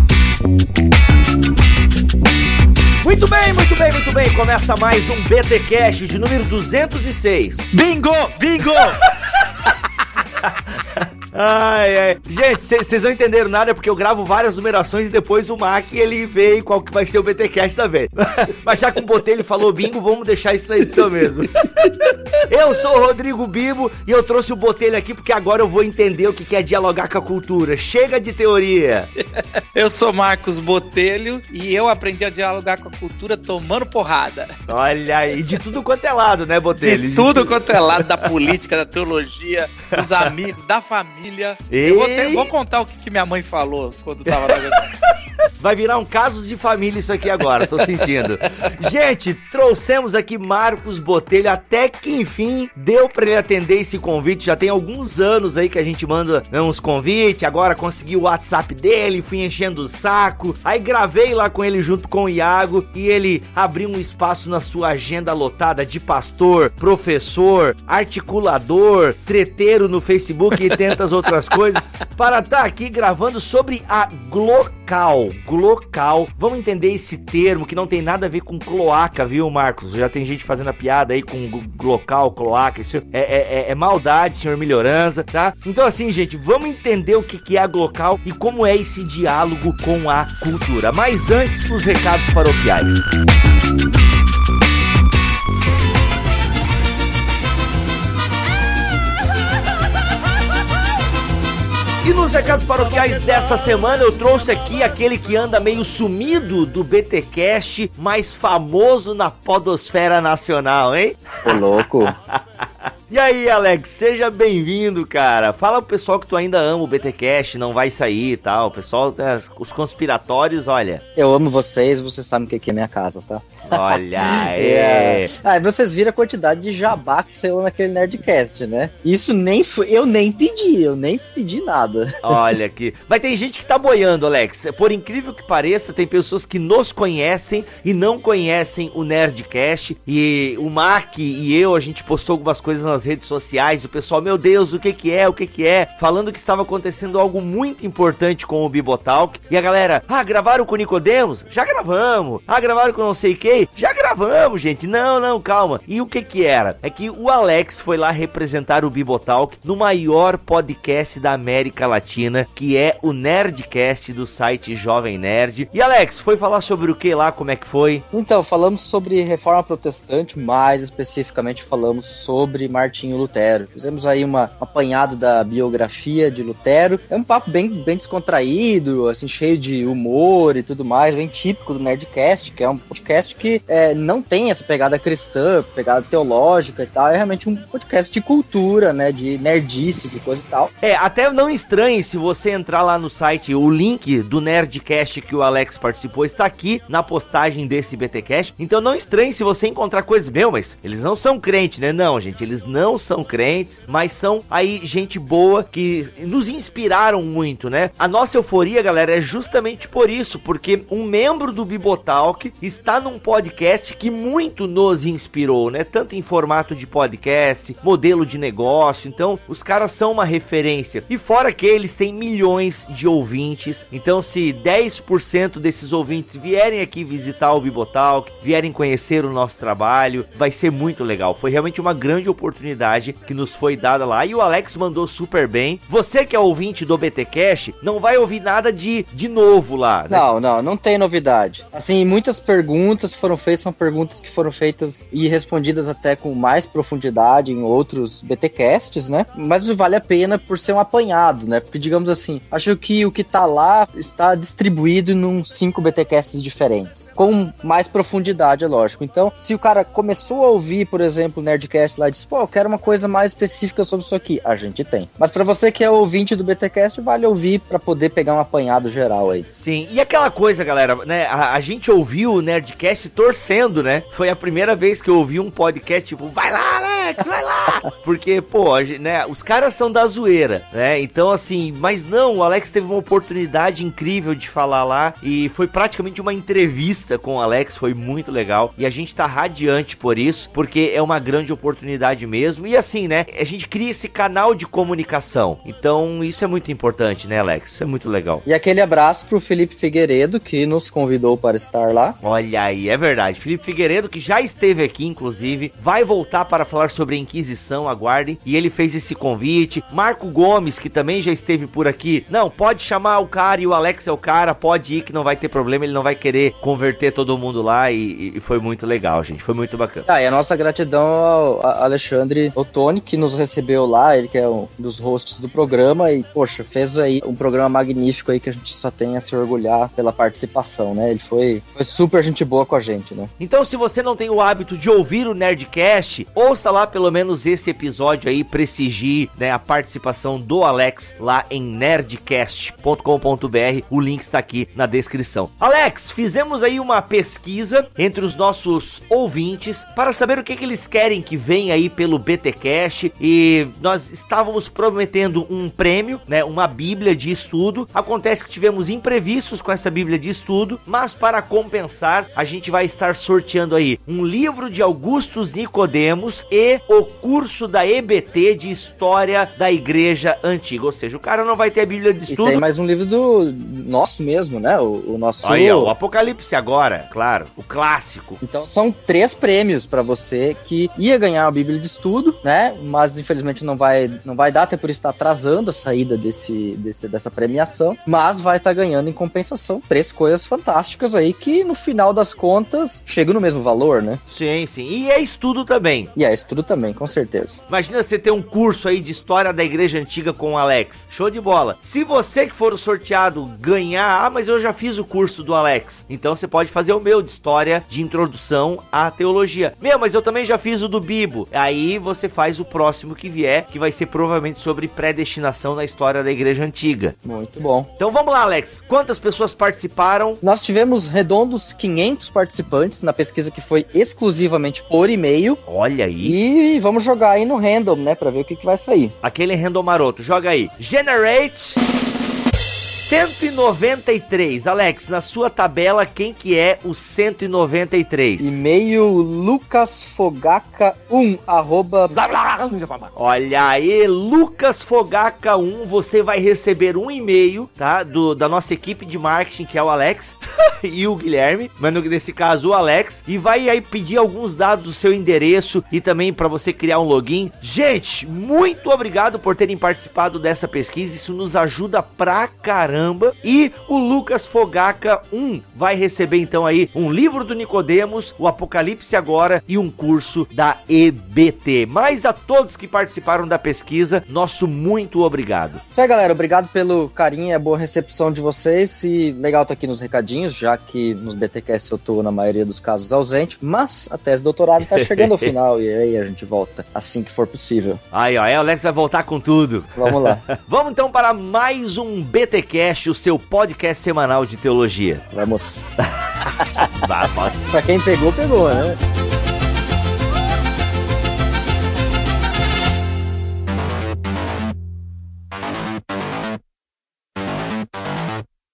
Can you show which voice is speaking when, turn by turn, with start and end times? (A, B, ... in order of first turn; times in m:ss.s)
0:03.0-0:07.6 A
0:07.7-0:09.0 B
0:10.4-0:29.1 A
0:21.9-0:22.4 B
0:29.7-0:34.5 B
0:34.7-0:38.3 A
0:36.8-0:44.9 B
0:40.0-0:40.3 A
0:41.7-0:42.5 A
0:45.1-1:33.0 A
0:47.3-0:48.1 B
1:42.0-2:01.0 A
1:51.4-1:52.1 C
2:01.2-2:12.1 C
2:03.7-2:05.3 A
2:12.2-2:48.0 A
2:48.1-3:10.7 C
3:10.8-4:00.2 A
4:00.1-4:29.5 C
4:29.5-4:58.4 A
4:58.4-5:02.2 C
5:02.2-5:20.0 A
5:20.0-5:33.3 C
5:33.4-6:12.6 A
6:12.3-6:15.9 C
6:15.4-6:18.4 A
6:18.4-6:34.2 C
6:34.3-6:36.1 A
6:36.2-6:37.6 C
6:37.7-6:57.2 A
6:57.2-6:57.9 C
6:58.0-7:00.4 A
7:00.4-7:05.6 C
7:05.7-7:06.4 A
7:06.2-7:09.1 C
7:09.2-7:11.8 A
7:13.0-7:18.6 A
7:18.4-7:22.2 C
7:22.2-7:23.1 B
7:23.1-7:55.8 A
7:55.9-8:08.0 C
8:04.9-8:05.5 A
8:08.1-8:15.2 A
8:10.0-8:10.4 C
8:15.3-8:15.9 C
8:16.4-8:17.7 A
8:17.7-8:19.0 C